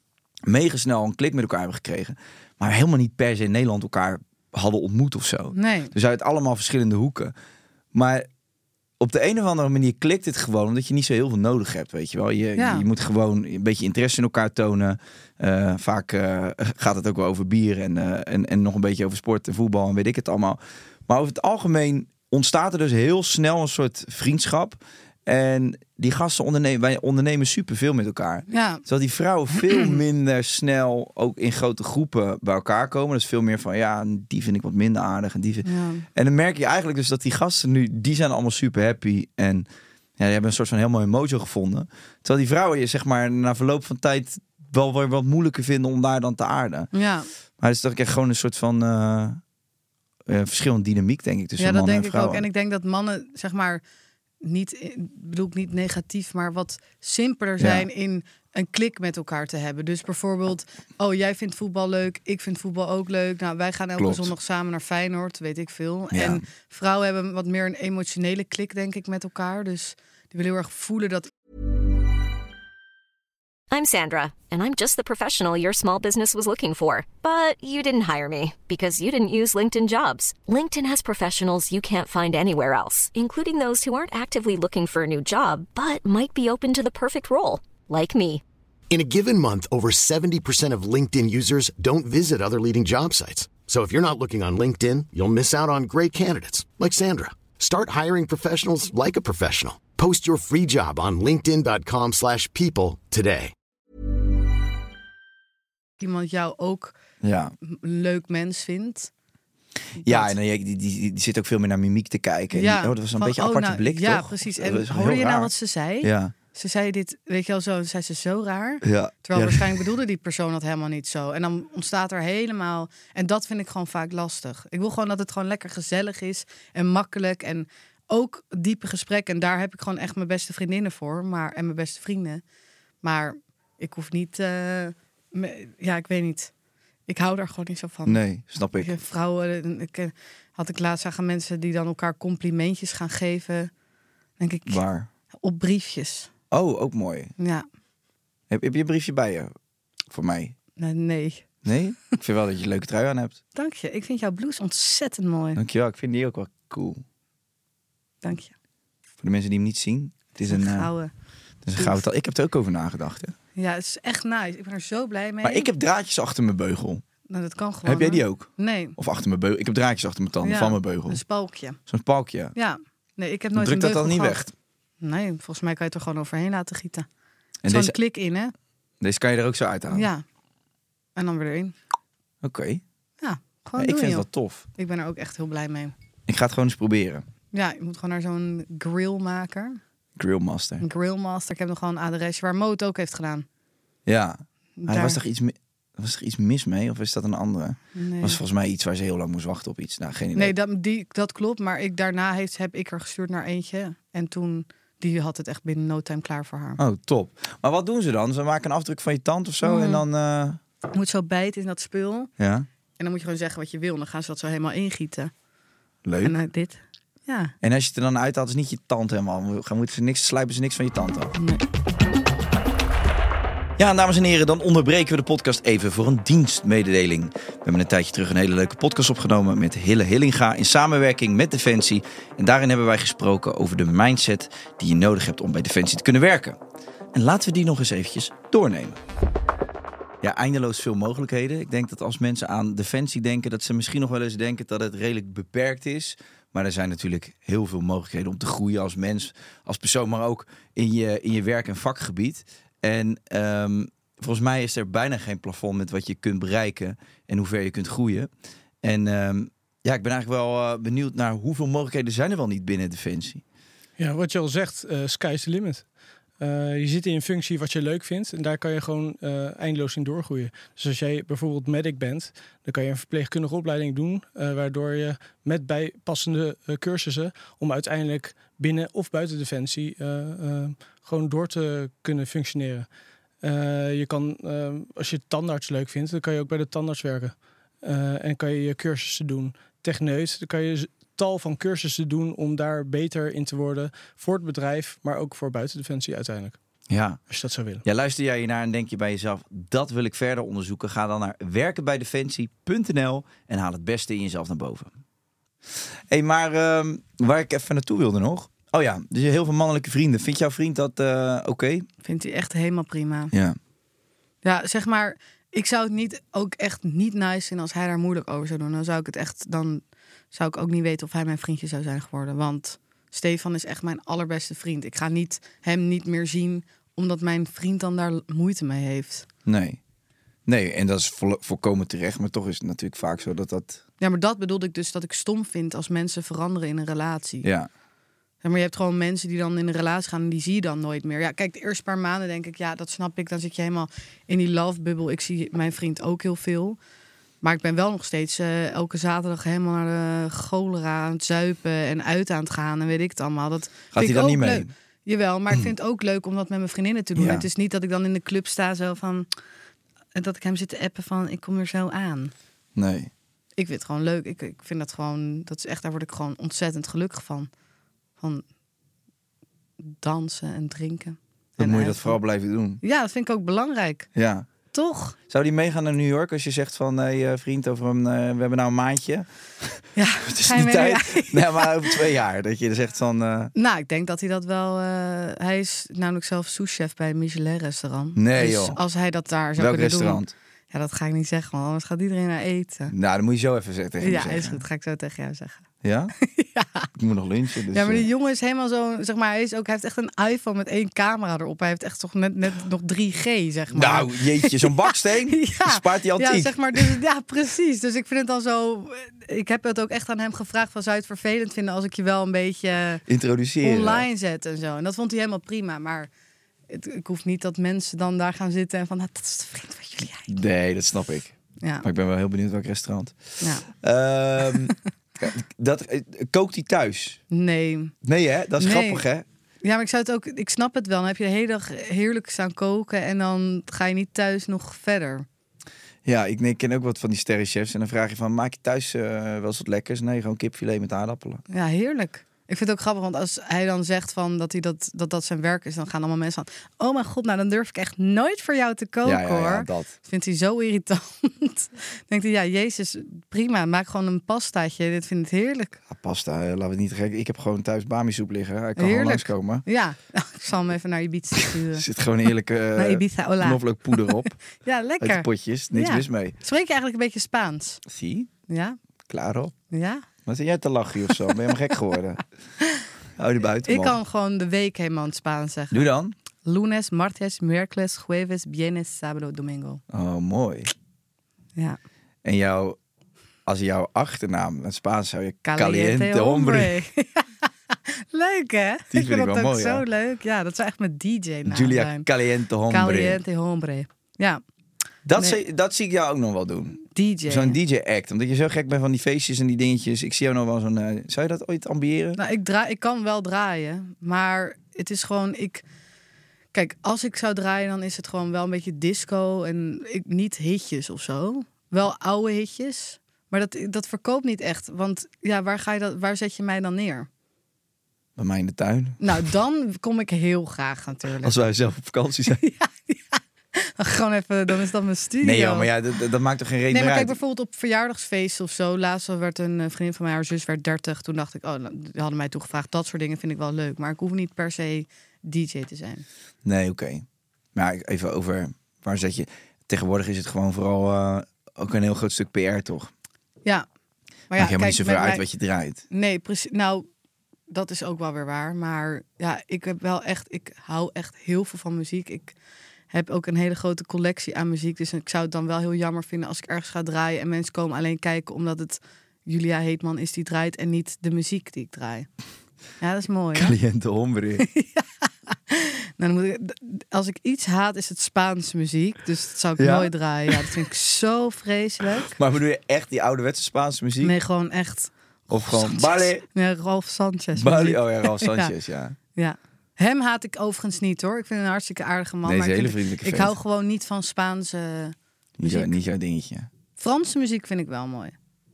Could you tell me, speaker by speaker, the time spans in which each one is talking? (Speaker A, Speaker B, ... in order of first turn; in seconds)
Speaker A: 0.5-7.3, 7.9-8.3, 9.0-39.6, 40.2-46.9, 47.6-49.4, 50.2-52.4, 57.6-57.9, 64.0-64.3, 66.1-66.4, 107.2-107.5, 110.0-115.5, 116.0-116.3, 118.8-119.8, 138.1-138.9, 144.7-145.1, 146.5-147.3, 148.5-149.5, 150.1-150.5, 151.6-153.4, 155.6-157.0, 159.2-160.9, 161.6-163.3, 165.4-167.0, 167.8-171.2, 171.9-172.5, 173.5-174.5, 177.6-177.9, 179.0-180.1, 182.4-182.8, 183.8-184.6, 186.3-187.2, 190.2-190.8, 194.1-200.5, 206.8-210.6, 212.4-212.7, 216.0-216.4, 217.6-221.3, 223.8-236.6, 237.1-239.0, 240.2-258.3, 258.8-263.4, 296.9-297.2, 297.8-304.9, 306.1-311.9, 313.3-313.6, 329.4-329.8, 330.4-333.8, 337.4-337.7, 353.9-354.7, 357.1-357.5, 362.7-363.1, 371.6-372.8, 374.1-374.5, 375.3-383.5, 388.1-388.8, 389.6-390.3, 392.9-394.6, 395.8-396.1, 396.9-398.1, 403.7-407.0, 413.1-414.1, 420.3-427.2, 428.0-429.2, 436.0-441.4, 449.0-449.9, 455.9-459.6, 461.5-464.4, 465.0-466.3, 467.9-468.3, 469.1-469.5, 470.2-472.2, 473.2-474.0, 475.7-476.1, 479.9-480.7, 482.2-482.8, 483.4-486.8, 488.9-489.8, 491.4-493.2, 495.0-502.2, 518.1-519.2, 521.2-522.4, 525.2-527.1, 536.4-542.9, 544.3-545.8, 563.3-564.4, 569.6-570.6, 572.1-574.2, 575.3-576.2, 577.4-579.0, 582.2-583.3, 585.4-586.5
Speaker B: 5.5-5.9, 12.6-12.8, 28.5-28.8, 29.5-29.9, 35.6-36.0, 46.9-47.3, 51.6-53.8, 54.4-71.3, 106.0-106.9, 107.6-109.1, 110.0-110.3, 112.5-132.4, 133.0-136.5, 137.1-138.2, 138.8-143.7, 144.4-144.8, 145.4-146.3, 147.4-147.6, 150.8-151.4, 153.5-155.6, 158.2-158.5, 160.4-161.1, 161.7-162.0, 163.6-165.7, 167.3-168.9, 170.4-171.8, 172.5-174.5, 175.0-177.1, 177.7-178.5, 179.9-180.2, 181.2-181.7, 183.2-185.9, 187.5-189.8, 190.8-193.4, 194.8-195.2, 197.9-198.4, 200.3-206.8, 209.6-210.0, 210.9-212.3, 213.0-215.3, 216.2-217.5, 221.4-221.6, 312.0-313.3, 314.4-329.2, 334.0-337.5, 338.4-346.8, 347.4-359.3, 360.1-362.3, 363.6-367.5, 368.2-368.4, 369.8-372.2, 372.8-374.1, 374.7-375.1, 379.9-382.0, 383.5-392.9, 394.0-395.6, 396.2-396.9, 397.7-413.0, 413.6-416.1, 416.7-420.3, 427.3-427.9, 428.6-429.0, 429.6-435.2, 441.5-455.8, 458.8-461.9, 462.8-467.8, 468.5-468.8, 469.7-470.1, 473.6-475.8, 476.4-479.8, 485.4-487.3, 487.9-492.1, 492.7-494.4, 496.9-497.6, 502.1-505.6, 506.5-517.1, 519.0-521.4, 522.3-525.7, 526.7-536.0, 544.3-545.2, 545.9-546.8, 547.5-552.3, 552.9-562.1, 562.8-563.5, 564.4-572.1, 574.0-578.5, 579.1-585.7, 586.8-588.1
Speaker C: 73.7-88.4
Speaker D: 88.9-103.5
Speaker E: 264.0-265.9, 266.4-282.9, 283.4-296.6, 297.3-297.8